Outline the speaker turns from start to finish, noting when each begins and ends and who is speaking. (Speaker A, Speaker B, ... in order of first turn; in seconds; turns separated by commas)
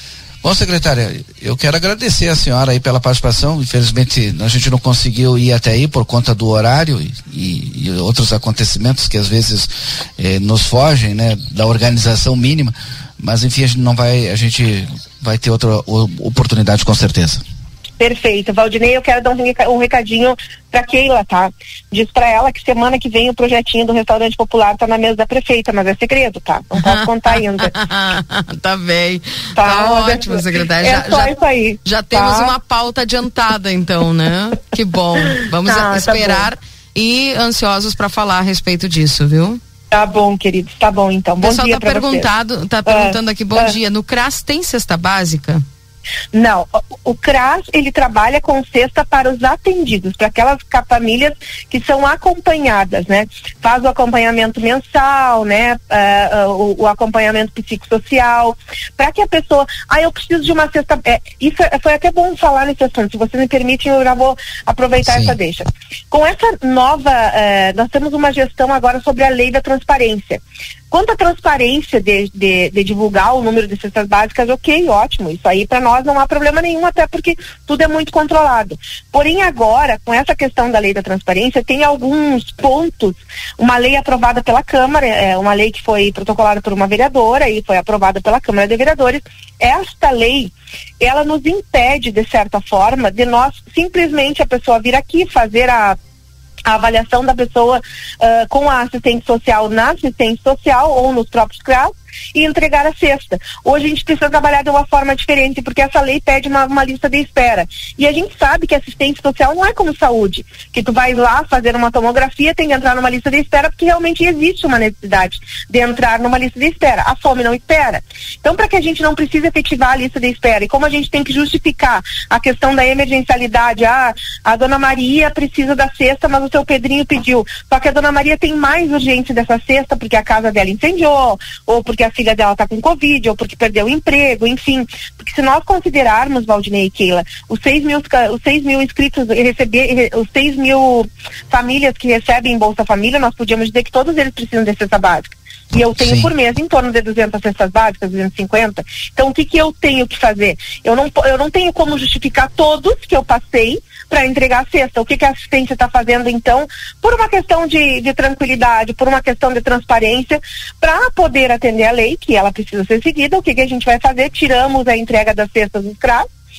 Speaker A: 0.4-17.4, Speaker B: 18.0-27.7, Speaker C: 26.9-39.6, Speaker B: 29.6-32.5, Speaker B: 35.6-36.5, Speaker B: 39.9-42.3, Speaker C: 41.4-45.6, Speaker B: 42.9-43.7, Speaker B: 46.3-96.0, Speaker A: 65.0-65.4, Speaker B: 96.7-166.3, Speaker A: 145.9-146.3